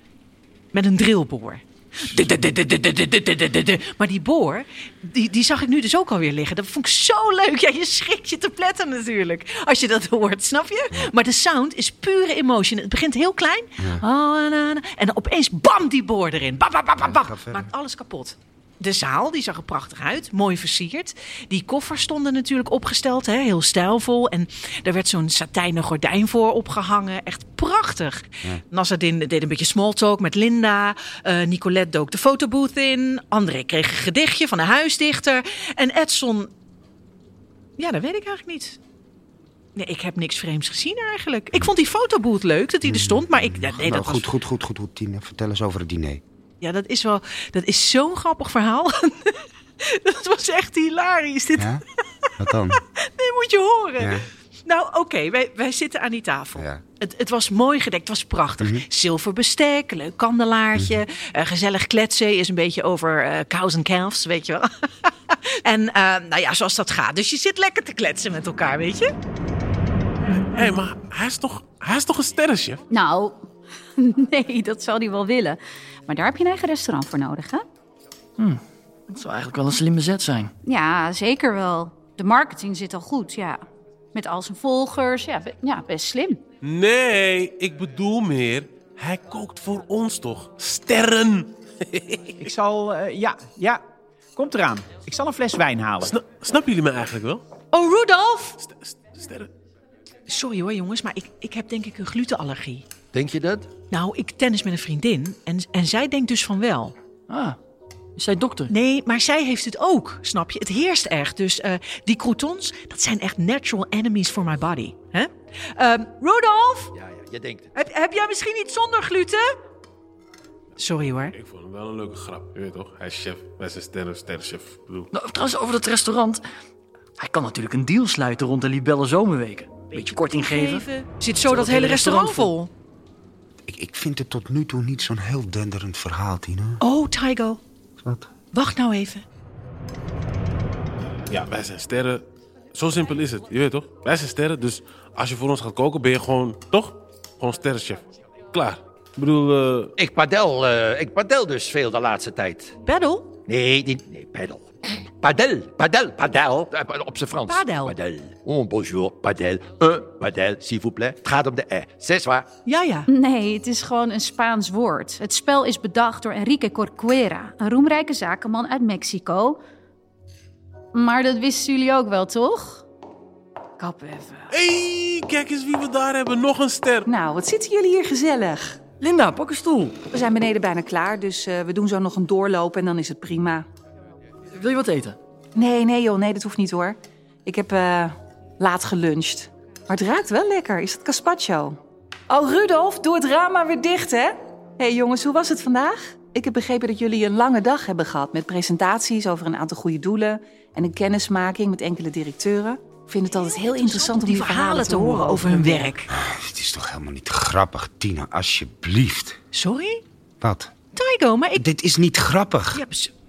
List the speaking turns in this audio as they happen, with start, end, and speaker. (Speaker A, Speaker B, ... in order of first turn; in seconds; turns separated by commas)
Speaker A: 0.7-36.5, Speaker B: 17.0-17.7, Speaker A: 37.8-38.8, Speaker A: 39.7-44.3, Speaker B: 42.9-46.2, Speaker A: 46.6-51.7, Speaker B: 51.6-51.8, Speaker A: 52.2-69.1, Speaker B: 52.4-52.8, Speaker B: 54.0-54.2, Speaker C: 70.5-72.8, Speaker D: 72.9-77.7, Speaker E: 78.4-80.5, Speaker D: 80.6-86.4, Speaker C: 86.6-92.4, Speaker F: 92.4-93.8, Speaker F: 94.3-96.2, Speaker C: 96.0-97.4, Speaker A: 97.7-98.5, Speaker C: 98.6-99.5, Speaker A: 100.3-102.8, Speaker G: 103.1-103.7, Speaker A: 103.9-107.0, Speaker E: 107.3-107.6, Speaker E: 108.2-108.7, Speaker A: 108.7-116.9, Speaker G: 117.0-117.6, Speaker A: 117.7-119.5, Speaker A: 120.8-121.3, Speaker C: 121.3-125.1, Speaker E: 125.1-126.4, Speaker E: 127.2-130.9, Speaker A: 129.9-132.7, Speaker E: 131.4-132.6, Speaker B: 133.7-136.8, Speaker A: 136.8-137.6, Speaker B: 138.0-138.3, Speaker A: 138.5-139.2, Speaker C: 141.3-149.9, Speaker G: 150.0-152.7, Speaker A: 152.8-153.3, Speaker G: 153.5-154.6, Speaker G: 155.2-162.4, Speaker A: 157.4-158.0, Speaker A: 162.7-163.1, Speaker D: 163.1-169.6, Speaker D: 170.9-172.8, Speaker D: 173.8-174.5, Speaker C: 174.5-177.1, Speaker H: 177.1-178.8, Speaker E: 179.0-180.0, Speaker H: 180.1-183.6, Speaker E: 184.5-185.2, Speaker H: 185.5-191.8, Speaker H: 192.3-205.9, Speaker A: 203.2-206.1, Speaker B: 206.1-209.4, Speaker A: 209.5-210.0, Speaker B: 210.4-210.7, Speaker A: 210.9-211.6, Speaker B: 211.6-212.8, Speaker A: 212.7-213.1